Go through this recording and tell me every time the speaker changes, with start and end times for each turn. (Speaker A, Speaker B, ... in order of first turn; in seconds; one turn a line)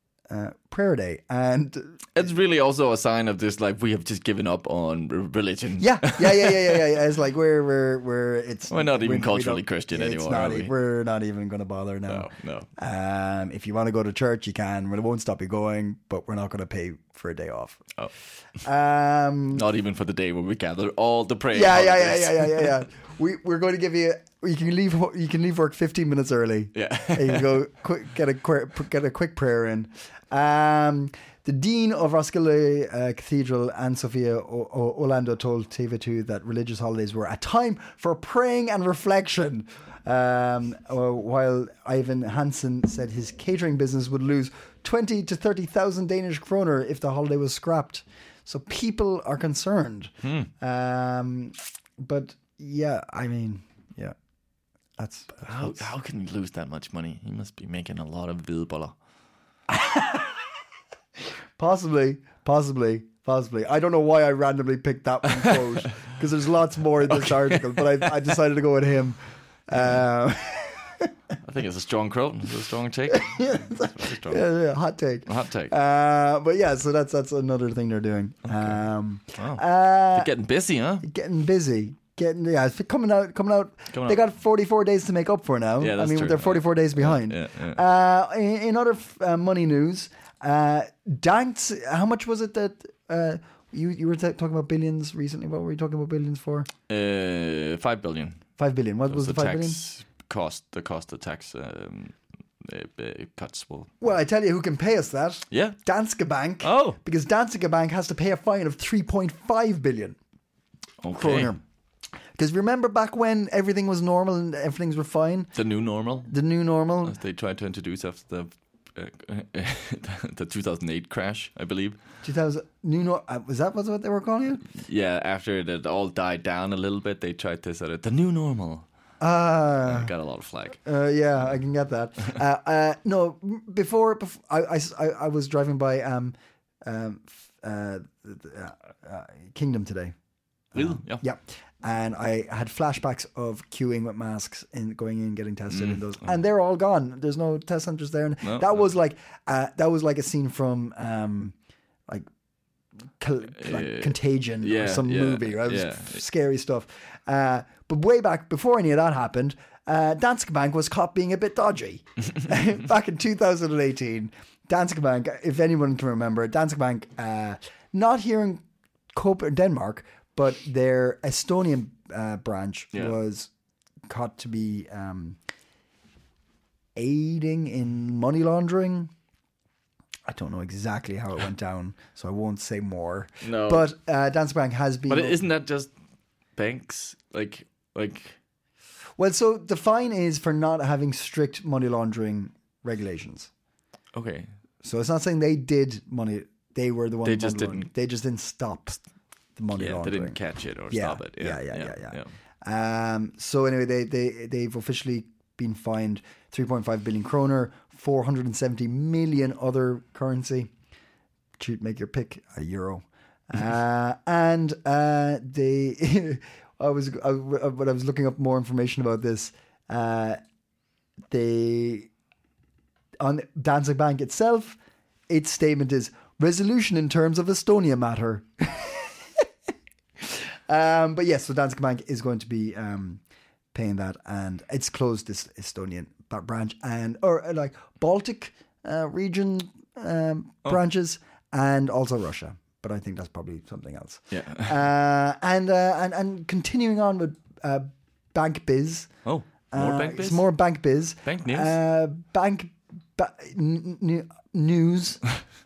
Speaker A: 0.3-2.0
Speaker B: 2.1-6.8
Speaker A: 5.8-17.8
Speaker B: 8.7-10.7
Speaker B: 12.1-12.7
Speaker A: 18.6-19.6
Speaker B: 19.5-22.7
Speaker A: 21.5-54.1
Speaker B: 26.7-27.5
Speaker B: 50.2-50.5
Speaker A: 55.0-55.9
Speaker B: 55.4-59.0
Speaker A: 59.7-60.4
Speaker A: 61.6-71.1
Speaker B: 67.1-67.9
Speaker B: 71.4-74.4
Speaker A: 73.1-80.3
Speaker B: 75.2-75.7
Speaker B: 78.4-78.8
Speaker B: 79.3-81.0
Speaker A: 81.0-96.7
Speaker B: 83.9-84.2
Speaker B: 85.8-87.8
Speaker B: 96.9-98.4
Speaker A: 98.6-99.8
Speaker B: 99.1-103.9
Speaker A: 104.0-110.2
Speaker B: 105.5-105.8
Speaker B: 106.6-107.0
Speaker B: 111.0-111.5
Speaker A: 111.1-111.6
Speaker A: 112.3-115.5
Speaker B: 115.5-116.3
Speaker A: 116.3-117.2
Speaker B: 117.0-122.0
Speaker A: 122.2-124.6
Speaker B: 124.7-128.8
Speaker A: 129.2-130.1
Speaker B: 129.8-130.8
Speaker A: 130.8-140.1
Speaker B: 140.7-141.2
Speaker A: 140.7-151.5
Speaker B: 145.7-146.3
Speaker B: 148.4-148.8
Speaker A: 153.2-173.5
Speaker B: 153.6-156.2
Speaker A: 174.1-175.4
Speaker A: 176.9-179.1
Speaker A: 180.2-185.4
Speaker B: 183.4-183.9
Speaker B: 185.1-185.9
Speaker B: 186.6-188.4
Speaker A: 189.2-193.5
Speaker B: 194.1-194.5
Speaker A: 194.8-199.0
Speaker B: 197.2-197.9
Speaker A: 199.6-200.4
Speaker B: 199.7-202.3
Speaker A: 200.9-210.7
Speaker A: 211.6-220.4
Speaker A: 221.3-222.1
Speaker A: 223.2-224.8
Speaker A: 225.3-229.5
Speaker A: 230.2-233.2
Speaker A: 233.7-255.2
Speaker B: 244.3-244.8
Speaker B: 249.2-250.5
Speaker B: 251.2-251.8